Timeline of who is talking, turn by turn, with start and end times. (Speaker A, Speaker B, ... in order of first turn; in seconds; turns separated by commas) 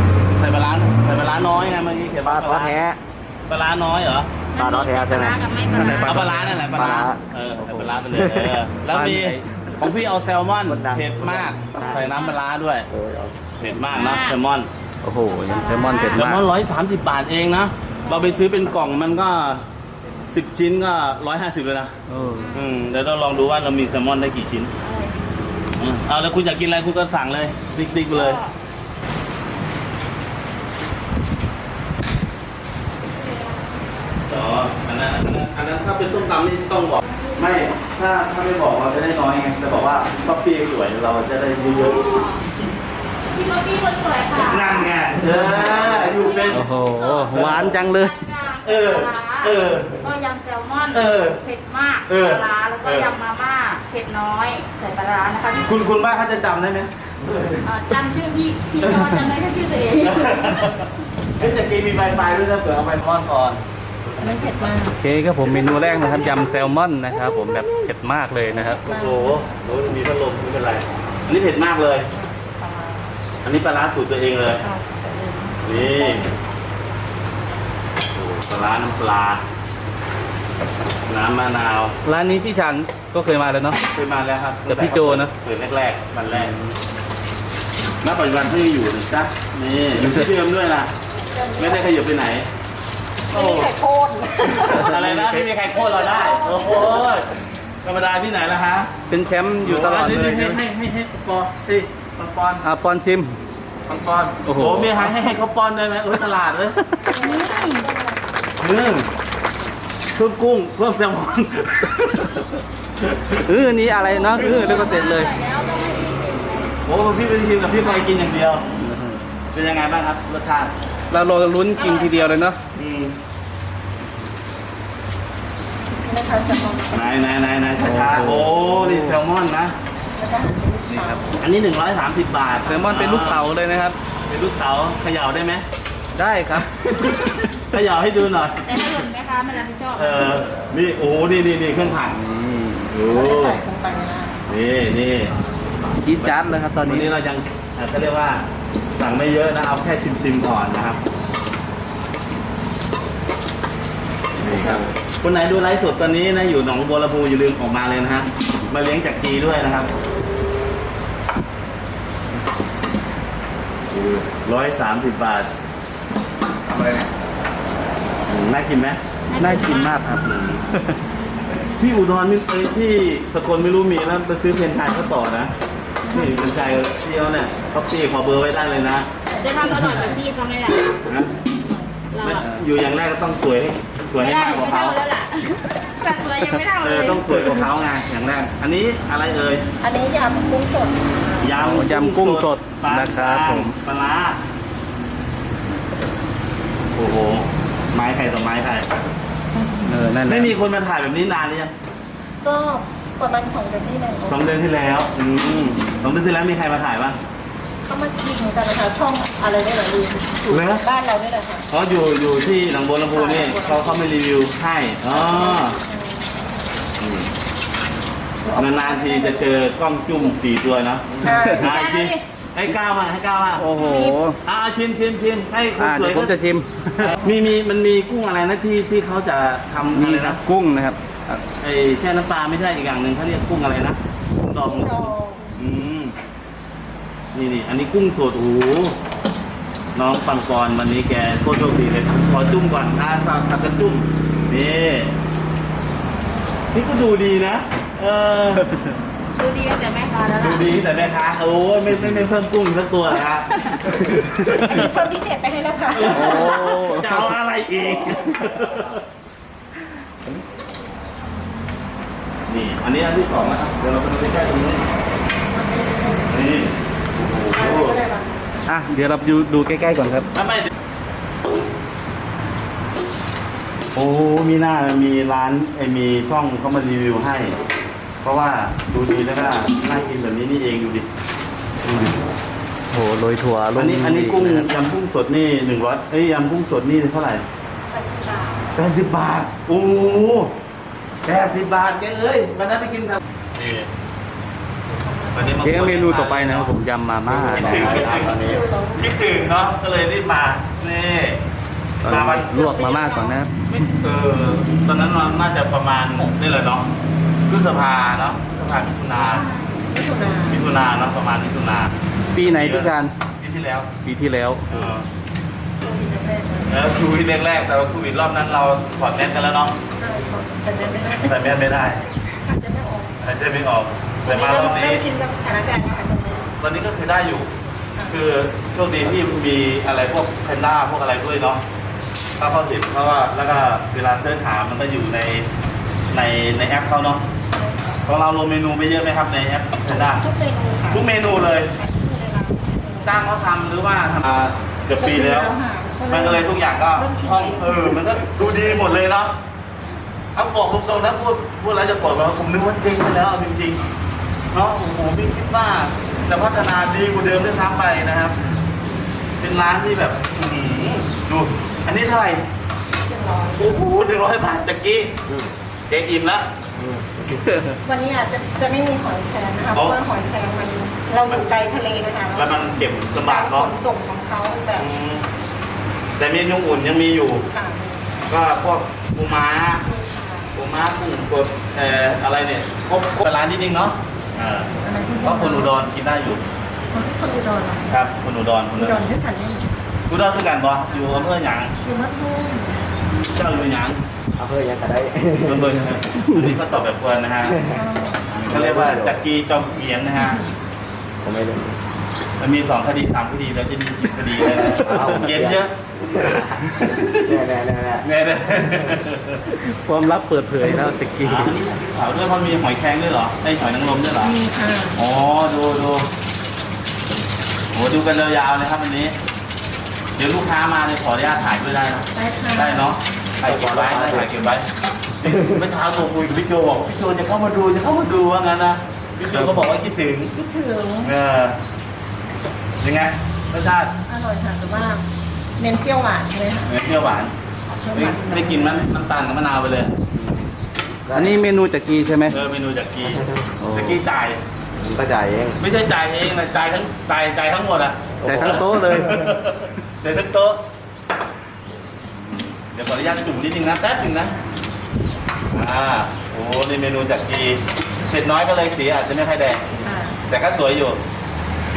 Speaker A: 0.4-2.8, Speaker B: 2.2-3.0, Speaker A: 3.5-4.3, Speaker C: 4.5-6.2, Speaker B: 4.5-5.4, Speaker D: 5.7-7.0, Speaker A: 6.0-12.9, Speaker B: 6.7-7.2, Speaker D: 7.6-8.0, Speaker B: 8.1-8.6, Speaker D: 8.9-9.8, Speaker B: 10.6-12.1, Speaker C: 11.8-12.4, Speaker B: 12.9-13.6, Speaker A: 13.6-14.7, Speaker C: 13.9-14.4, Speaker D: 15.0-16.4, Speaker C: 15.3-16.2, Speaker A: 16.1-19.6, Speaker C: 18.0-18.4, Speaker A: 20.3-21.9, Speaker D: 22.1-22.5, Speaker C: 22.3-22.7, Speaker A: 22.5-24.7, Speaker C: 24.8-25.2, Speaker A: 25.8-28.4, Speaker C: 28.1-28.5, Speaker C: 33.2-33.6, Speaker A: 34.3-42.2, Speaker C: 37.1-37.4, Speaker C: 41.5-42.4, Speaker C: 43.3-44.9, Speaker A: 44.4-46.6, Speaker D: 45.3-45.6, Speaker C: 45.6-55.8, Speaker D: 46.5-48.2, Speaker A: 47.2-47.8, Speaker A: 48.6-50.0, Speaker A: 50.9-51.4, Speaker A: 52.1-53.1, Speaker A: 55.6-57.6, Speaker C: 57.6-60.7, Speaker A: 58.8-59.1, Speaker A: 60.0-64.7, Speaker E: 64.2-65.0, Speaker D: 65.0-68.8, Speaker E: 67.1-67.8, Speaker E: 68.5-69.5, Speaker A: 68.8-72.1, Speaker E: 72.1-73.2, Speaker A: 73.4-74.6, Speaker E: 74.6-76.4, Speaker A: 75.6-76.3, Speaker A: 78.1-79.4, Speaker A: 81.1-82.0, Speaker D: 82.0-83.8, Speaker A: 83.9-86.5, Speaker D: 84.6-85.3, Speaker D: 86.3-86.7, Speaker A: 88.0-90.9, Speaker D: 90.0-90.3, Speaker E: 91.1-92.0, Speaker A: 91.6-92.5, Speaker E: 93.3-95.1, Speaker A: 93.3-93.7, Speaker A: 94.5-97.3, Speaker D: 94.6-95.5, Speaker C: 95.8-96.8, Speaker E: 95.8-97.0, Speaker A: 97.8-99.0, Speaker D: 99.1-100.6, Speaker A: 99.6-102.6, Speaker D: 102.6-103.4, Speaker A: 103.9-106.9, Speaker D: 104.4-105.2, Speaker E: 107.1-108.2, Speaker C: 107.1-107.9, Speaker A: 108.6-109.1, Speaker A: 110.1-112.3, Speaker A: 113.0-113.4, Speaker D: 113.4-115.3, Speaker C: 114.0-116.7, Speaker E: 114.1-116.3, Speaker A: 114.3-114.9, Speaker A: 116.8-118.7, Speaker D: 118.8-119.2, Speaker A: 119.5-120.7, Speaker D: 121.1-122.6, Speaker E: 121.7-122.3, Speaker A: 122.7-123.2, Speaker E: 125.9-127.4, Speaker A: 126.9-129.7, Speaker D: 127.8-129.2, Speaker E: 130.2-131.3, Speaker D: 130.9-131.3, Speaker A: 131.4-133.4, Speaker D: 132.7-134.0, Speaker A: 134.2-135.6, Speaker D: 136.1-137.5, Speaker A: 137.7-138.6, Speaker C: 138.6-140.3, Speaker A: 139.9-142.1, Speaker D: 142.0-142.9, Speaker A: 142.9-143.6, Speaker E: 143.0-144.4, Speaker A: 144.5-145.3, Speaker D: 146.0-147.1, Speaker A: 146.2-148.4, Speaker A: 149.0-151.0, Speaker B: 154.4-154.9, Speaker A: 154.6-159.9, Speaker B: 163.9-164.3, Speaker A: 164.4-165.5, Speaker B: 166.7-167.1, Speaker A: 168.3-169.0, Speaker C: 169.3-169.9, Speaker D: 169.4-170.9, Speaker A: 170.2-170.6, Speaker A: 171.8-175.5, Speaker C: 176.0-176.7, Speaker A: 176.1-179.1, Speaker C: 179.3-181.0, Speaker E: 179.3-180.1, Speaker A: 181.1-181.3, Speaker C: 181.7-182.5, Speaker A: 182.2-185.0, Speaker C: 184.2-187.7, Speaker A: 186.8-189.7, Speaker D: 187.4-187.7, Speaker E: 189.8-191.6, Speaker A: 191.4-194.4, Speaker D: 191.6-193.7, Speaker A: 196.9-198.9, Speaker D: 199.8-200.5, Speaker A: 200.2-201.7, Speaker E: 202.4-204.4, Speaker A: 204.2-207.2, Speaker E: 207.8-211.7, Speaker A: 210.5-210.8, Speaker A: 211.7-215.8, Speaker E: 213.1-214.0, Speaker E: 215.1-216.3, Speaker A: 217.0-217.3, Speaker E: 218.4-219.6, Speaker A: 218.5-223.7, Speaker B: 221.1-221.5, Speaker E: 221.2-222.1, Speaker D: 221.2-221.7, Speaker C: 221.7-222.2, Speaker D: 223.6-224.4, Speaker E: 223.8-224.2, Speaker A: 224.4-226.4, Speaker D: 225.8-227.2, Speaker A: 227.2-230.4, Speaker D: 229.9-231.4, Speaker A: 231.6-236.2, Speaker E: 234.4-235.7, Speaker A: 237.3-239.0, Speaker A: 239.9-245.2, Speaker A: 246.7-248.7, Speaker C: 249.3-250.7, Speaker A: 250.4-255.0, Speaker C: 253.5-253.8, Speaker E: 254.7-256.6, Speaker A: 255.9-259.0, Speaker D: 256.1-257.4, Speaker A: 262.4-264.8, Speaker E: 265.5-266.4, Speaker A: 266.3-268.0, Speaker E: 267.4-268.7, Speaker D: 268.7-270.3, Speaker A: 270.3-270.7, Speaker A: 273.9-277.6, Speaker A: 278.2-281.1, Speaker D: 281.8-282.1, Speaker D: 282.9-284.7, Speaker A: 283.8-287.4, Speaker E: 287.9-288.7, Speaker A: 288.8-290.5, Speaker A: 291.2-293.9, Speaker E: 294.9-295.8, Speaker A: 295.3-296.7, Speaker D: 295.6-297.8, Speaker A: 297.3-301.4, Speaker B: 297.4-298.6, Speaker E: 297.7-299.0, Speaker D: 302.0-303.5, Speaker A: 302.1-302.5, Speaker E: 302.6-303.3, Speaker A: 303.7-306.9, Speaker A: 307.5-309.5, Speaker E: 309.2-310.6, Speaker A: 310.5-313.9, Speaker D: 312.3-313.2, Speaker D: 313.9-314.9, Speaker A: 314.7-315.1, Speaker E: 315.8-316.8, Speaker A: 316.7-319.8, Speaker E: 319.9-321.4, Speaker A: 321.2-322.0, Speaker E: 322.4-323.2, Speaker A: 323.2-325.0, Speaker E: 324.2-326.5, Speaker A: 326.6-327.5, Speaker A: 328.1-331.6, Speaker A: 332.4-335.5, Speaker A: 336.1-337.2, Speaker E: 337.5-338.0, Speaker A: 338.1-340.2, Speaker E: 339.9-341.2, Speaker A: 340.9-341.7, Speaker E: 341.7-343.1, Speaker A: 343.0-349.3, Speaker E: 344.9-348.0, Speaker A: 350.3-353.8, Speaker A: 354.5-358.4, Speaker A: 359.4-362.4, Speaker E: 363.1-363.9, Speaker A: 363.5-365.1, Speaker B: 365.3-365.5, Speaker A: 365.9-366.5, Speaker B: 366.8-367.3, Speaker D: 367.5-367.8, Speaker E: 367.8-374.9, Speaker A: 369.7-370.1, Speaker A: 371.2-371.5, Speaker A: 372.3-373.7, Speaker A: 374.7-375.3, Speaker A: 376.2-377.5, Speaker E: 377.5-378.2, Speaker A: 378.3-379.8, Speaker E: 379.8-380.5, Speaker A: 380.5-384.7, Speaker E: 384.8-385.8, Speaker A: 385.2-386.4, Speaker E: 386.9-388.0, Speaker A: 387.9-389.1, Speaker E: 388.8-389.7, Speaker A: 390.1-391.7, Speaker E: 390.9-392.9, Speaker A: 393.3-394.0, Speaker B: 394.4-395.7, Speaker A: 395.4-397.6, Speaker D: 396.2-396.5, Speaker B: 397.4-399.2, Speaker E: 397.7-398.4, Speaker A: 398.3-400.4, Speaker B: 401.2-401.8, Speaker A: 402.4-407.3, Speaker D: 404.4-405.1, Speaker B: 404.8-406.4, Speaker B: 407.2-408.1, Speaker A: 408.0-409.5, Speaker D: 409.5-411.5, Speaker A: 411.2-414.4, Speaker E: 414.2-415.0, Speaker A: 414.9-416.1, Speaker A: 417.7-419.1, Speaker A: 420.2-424.7, Speaker E: 422.1-422.9, Speaker B: 423.4-424.3, Speaker A: 425.2-430.3, Speaker E: 430.3-431.1, Speaker A: 431.0-431.6, Speaker A: 432.8-433.9, Speaker E: 434.1-435.0, Speaker E: 435.6-436.7, Speaker A: 436.6-437.3, Speaker E: 437.7-438.9, Speaker A: 437.9-439.9, Speaker B: 440.1-440.4, Speaker B: 441.1-441.4, Speaker D: 441.1-442.4, Speaker A: 442.3-444.4, Speaker B: 443.0-443.4, Speaker D: 443.6-444.0, Speaker B: 444.8-445.6, Speaker A: 445.6-450.6, Speaker B: 448.2-449.2, Speaker D: 448.2-449.3, Speaker A: 452.7-454.3, Speaker A: 455.5-459.8, Speaker E: 459.8-460.2, Speaker A: 460.3-461.0